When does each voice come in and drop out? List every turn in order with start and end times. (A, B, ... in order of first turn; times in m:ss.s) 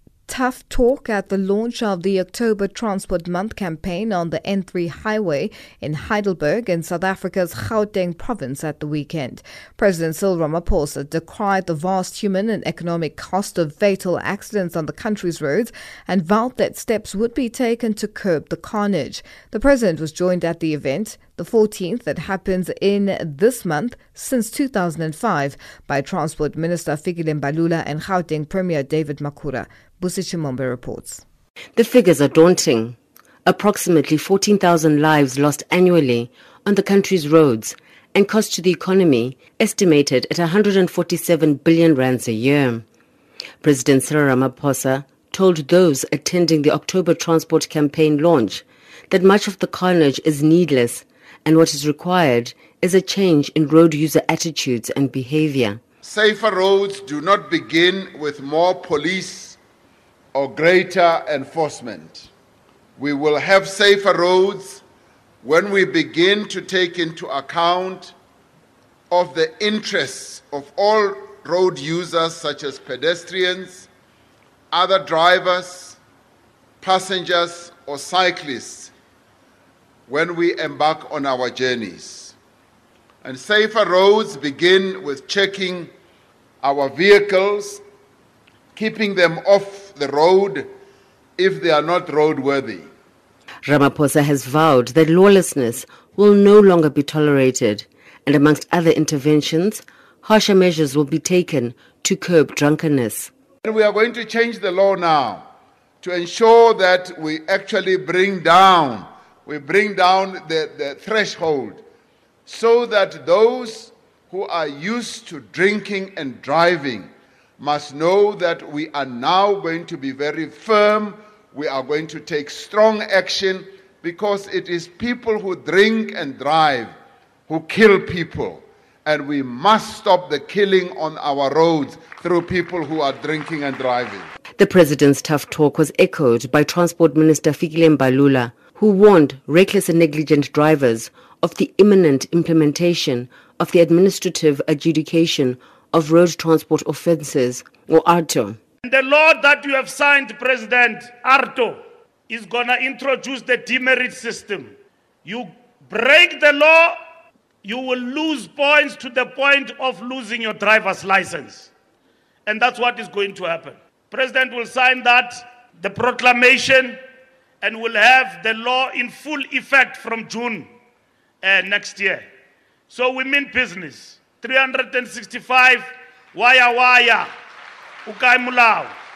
0:00.3-0:31.2 A
0:31.8-0:42.8 B
0:43.6-0:55.8 B
0:56.0-0:59.6 C
1:00.3-1:02.3 C
1:03.0-1:04.8 C
1:05.4-1:08.1 C
1:09.1-1:13.9 C
1:14.7-1:16.0 C
1:16.8-1:18.9 C
1:20.1-1:22.4 C
1:23.2-1:25.9 C
1:26.6-1:27.8 C
1:28.8-1:30.7 C
1:31.4-1:32.9 C
1:33.6-1:43.3 B
1:43.6-1:45.5 C
1:46.0-1:51.8 C
1:52.5-2:06.9 C
2:07.5-2:14.3 C
2:14.6-2:28.6 B
2:28.8-2:34.7 D
2:35.2-2:37.0 D
2:37.6-2:41.7 D
2:42.5-2:47.0 D
2:47.6-2:50.7 D
2:51.4-2:52.3 D
2:52.9-2:57.3 D
2:58.1-2:59.0 D